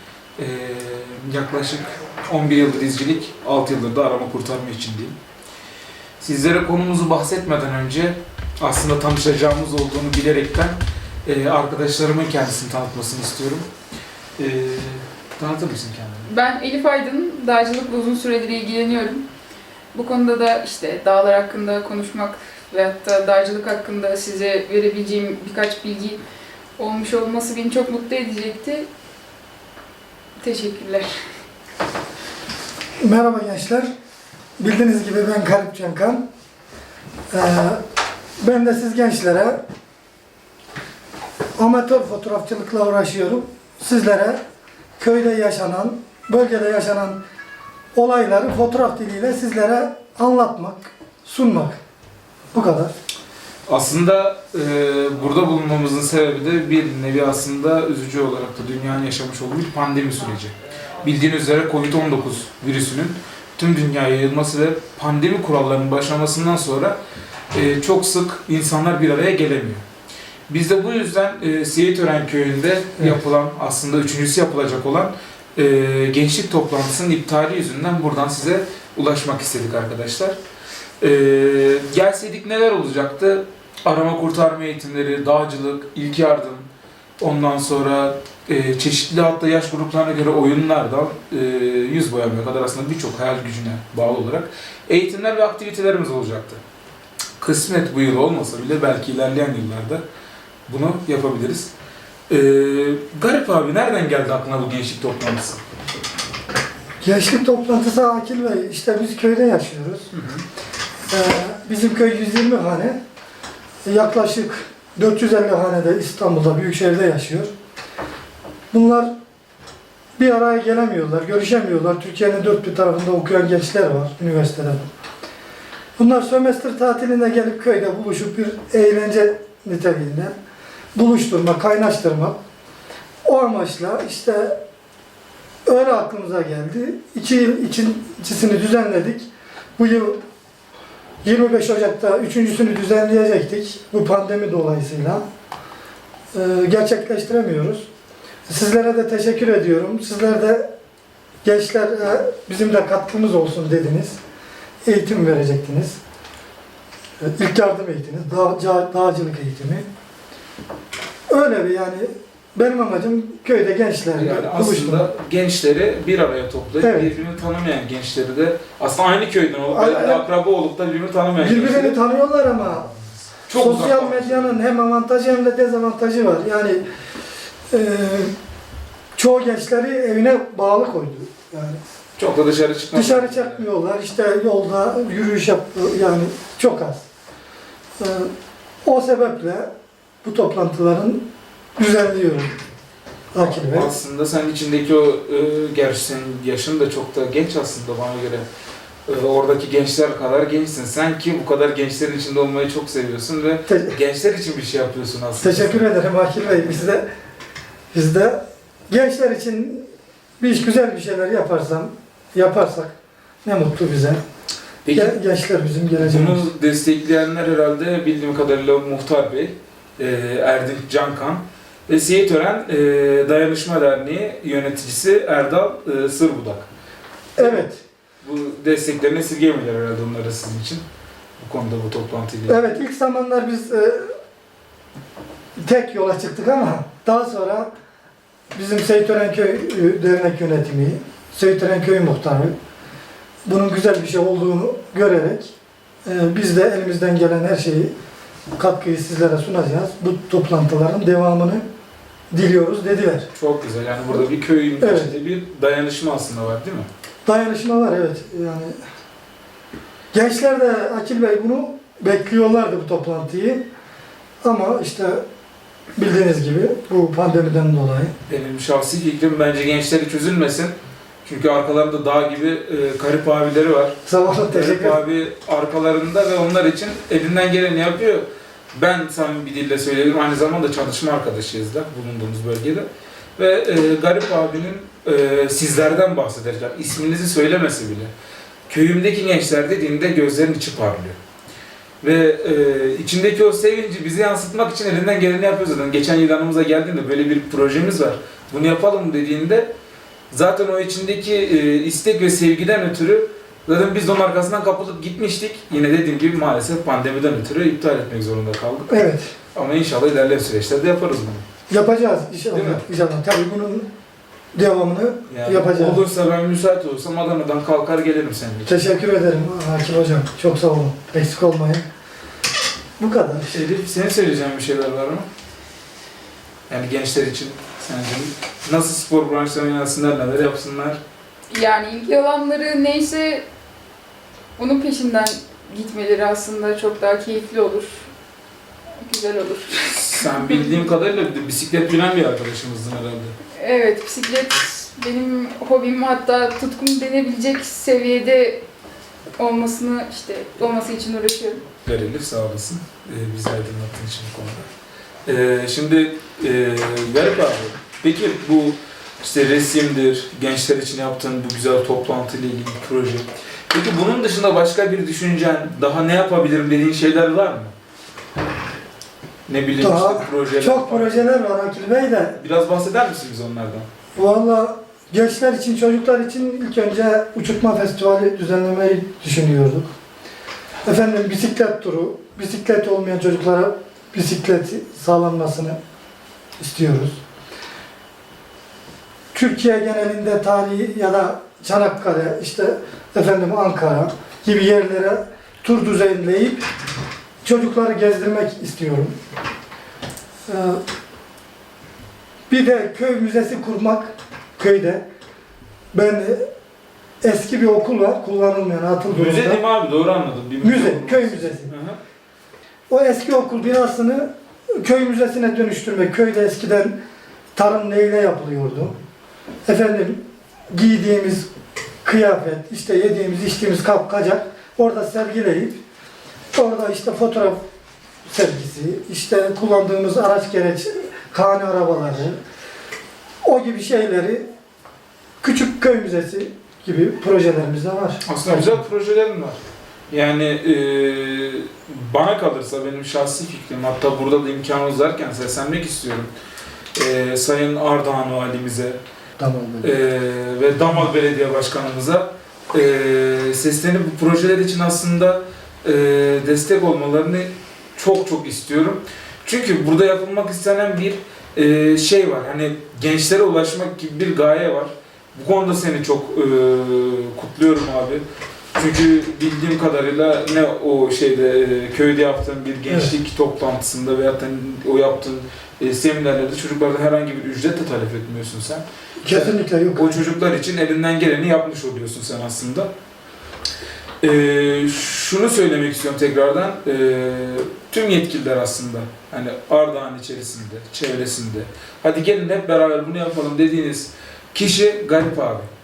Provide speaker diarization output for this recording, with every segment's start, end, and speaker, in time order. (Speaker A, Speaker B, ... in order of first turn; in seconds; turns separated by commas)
Speaker A: 0.4-5.2, Speaker A: 6.2-13.7, Speaker A: 14.4-16.3, Speaker B: 16.3-19.2, Speaker B: 19.9-26.2, Speaker B: 26.8-28.9, Speaker B: 30.4-31.1, Speaker C: 33.0-33.9, Speaker C: 34.6-36.2, Speaker C: 37.3-37.8, Speaker C: 38.4-39.6, Speaker C: 41.6-44.4, Speaker C: 45.0-47.2, Speaker C: 48.0-51.8, Speaker C: 52.5-52.9, Speaker A: 53.7-67.0, Speaker A: 67.5-69.8, Speaker A: 70.5-80.4, Speaker A: 81.0-86.7, Speaker A: 87.2-96.6, Speaker A: 97.4-100.0, Speaker A: 100.7-101.7, Speaker A: 102.3-105.6, Speaker C: 107.0-110.1, Speaker A: 110.1-110.4, Speaker C: 111.1-113.0, Speaker C: 113.8-117.5, Speaker C: 118.7-119.1, Speaker C: 120.2-124.9, Speaker C: 126.0-130.3, Speaker C: 130.9-132.4, Speaker C: 133.2-134.6, Speaker C: 135.7-140.2, Speaker C: 141.2-145.2, Speaker C: 146.3-147.9, Speaker C: 148.5-150.7, Speaker C: 151.4-154.2, Speaker C: 154.8-156.0, Speaker C: 157.2-159.9, Speaker C: 161.3-165.1, Speaker A: 164.2-172.0, Speaker C: 166.8-167.1, Speaker C: 169.7-170.2, Speaker C: 171.4-172.9, Speaker A: 173.4-174.6, Speaker C: 173.6-176.8, Speaker C: 177.7-178.3, Speaker C: 179.2-181.8, Speaker A: 182.2-183.7, Speaker C: 182.9-187.1, Speaker C: 188.0-188.3, Speaker C: 188.8-189.7, Speaker C: 190.2-191.2, Speaker C: 191.8-192.6, Speaker C: 193.3-193.9, Speaker A: 193.4-198.5, Speaker A: 199.1-206.9, Speaker C: 203.7-204.0, Speaker C: 205.4-207.1, Speaker C: 207.9-209.8, Speaker C: 210.4-212.9, Speaker C: 213.4-214.2, Speaker A: 214.8-215.2, Speaker C: 214.9-216.5, Speaker A: 216.0-226.7, Speaker C: 227.4-227.8, Speaker A: 227.4-227.7, Speaker A: 228.2-230.8, Speaker A: 231.4-232.7, Speaker C: 232.5-234.1, Speaker C: 235.6-237.7, Speaker C: 238.5-242.5, Speaker C: 243.5-245.5, Speaker C: 246.1-247.9, Speaker C: 248.6-251.6, Speaker C: 252.3-253.3, Speaker A: 253.3-256.9, Speaker C: 254.8-255.1, Speaker C: 257.2-258.8, Speaker C: 260.1-263.6, Speaker C: 264.4-265.2, Speaker C: 266.0-268.1, Speaker A: 268.3-274.0, Speaker C: 274.1-275.0, Speaker A: 274.5-288.1, Speaker A: 288.7-291.2, Speaker A: 292.0-299.7, Speaker A: 300.3-308.9, Speaker C: 308.9-309.3, Speaker A: 309.5-311.4, Speaker C: 311.7-313.9, Speaker A: 312.5-312.9, Speaker C: 314.5-316.0, Speaker A: 315.3-318.8, Speaker C: 318.7-321.9, Speaker C: 323.0-323.6, Speaker A: 323.5-325.3, Speaker A: 326.7-331.0, Speaker B: 331.5-333.4, Speaker B: 334.6-338.1, Speaker B: 339.0-340.8, Speaker A: 339.8-343.4, Speaker B: 343.6-348.6, Speaker B: 349.4-351.6, Speaker A: 351.8-354.7, Speaker A: 355.3-367.7, Speaker A: 369.5-371.3, Speaker C: 369.8-372.4, Speaker A: 372.4-373.9, Speaker C: 374.2-379.9, Speaker C: 380.8-385.8, Speaker C: 386.6-387.2, Speaker C: 389.3-396.6, Speaker C: 397.4-399.1, Speaker C: 400.5-400.8, Speaker C: 402.5-405.0, Speaker C: 405.9-406.5, Speaker C: 407.2-409.6, Speaker A: 409.1-412.0, Speaker C: 410.6-411.7, Speaker C: 412.9-414.3, Speaker C: 414.8-416.9, Speaker C: 417.6-418.9, Speaker C: 419.7-421.5, Speaker C: 422.0-425.8, Speaker C: 426.5-427.6, Speaker C: 428.3-432.4, Speaker C: 433.4-434.4, Speaker C: 435.4-438.8, Speaker A: 438.2-446.3, Speaker A: 447.0-449.0, Speaker C: 449.4-449.9, Speaker A: 449.8-468.2, Speaker A: 468.8-482.9, Speaker C: 472.9-473.1, Speaker C: 479.2-480.2, Speaker A: 484.2-495.7